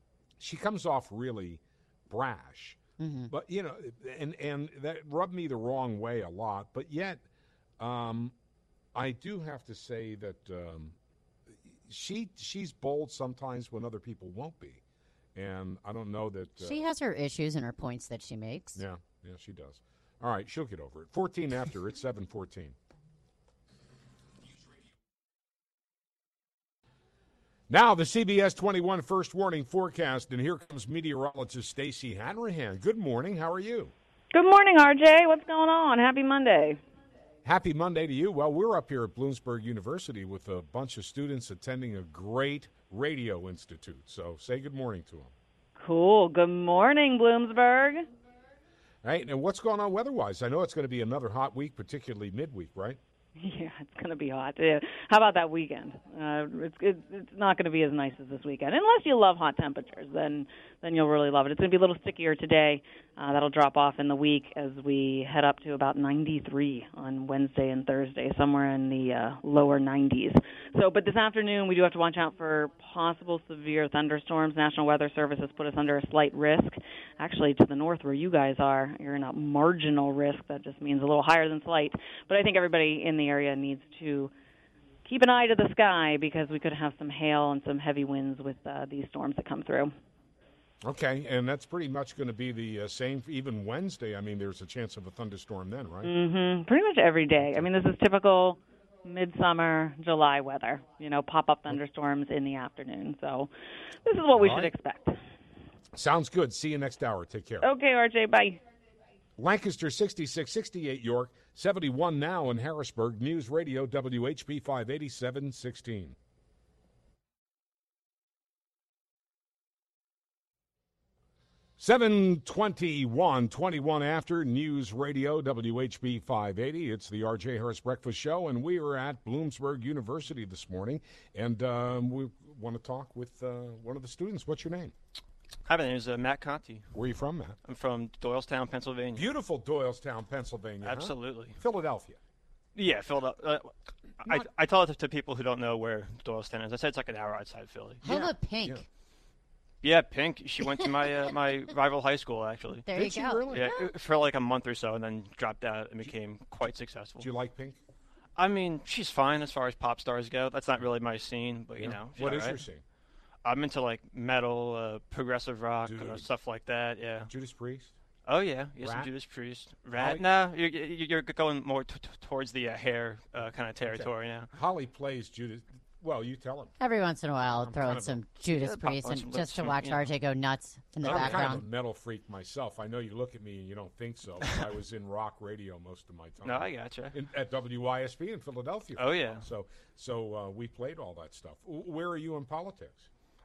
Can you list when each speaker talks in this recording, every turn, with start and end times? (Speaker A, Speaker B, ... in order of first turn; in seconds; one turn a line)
Speaker A: 0.4-7.2
Speaker B: 3.0-3.3
Speaker A: 7.8-8.3
Speaker A: 8.9-10.9
Speaker A: 11.7-14.8
Speaker A: 15.3-16.8
Speaker B: 16.6-18.8
Speaker A: 18.8-22.8
Speaker A: 27.7-33.9
Speaker C: 34.3-36.8
Speaker A: 37.4-45.3
Speaker C: 45.8-48.1
Speaker A: 49.0-53.0
Speaker C: 53.4-84.3
Speaker C: 85.0-89.9
Speaker A: 90.8-96.1
Speaker C: 96.0-103.5
Speaker C: 104.0-105.2
Speaker A: 104.3-104.7
Speaker A: 105.9-107.7
Speaker C: 107.6-108.6
Speaker A: 109.4-116.2
Speaker A: 121.8-134.9
Speaker D: 135.7-136.9
Speaker A: 136.9-137.6
Speaker D: 137.6-139.3
Speaker A: 139.1-142.2
Speaker D: 140.8-141.6
Speaker D: 142.7-148.0
Speaker B: 148.0-148.8
Speaker A: 148.0-148.8
Speaker D: 149.8-152.8
Speaker B: 152.8-153.9
Speaker A: 152.9-153.7
Speaker D: 153.5-157.3
Speaker A: 157.2-157.8
Speaker D: 158.3-162.6
Speaker A: 161.8-162.8
Speaker D: 163.4-167.3
Speaker A: 165.8-166.3
Speaker A: 167.3-167.9
Speaker D: 168.2-174.5
Speaker A: 168.8-169.1
Speaker A: 169.9-170.2
Speaker A: 173.8-176.7
Speaker B: 176.8-181.6
Speaker A: 177.5-178.2
Speaker D: 178.5-180.1
Speaker A: 181.0-193.1
Speaker D: 181.0-181.4
Speaker D: 186.4-187.2
Speaker D: 188.9-189.4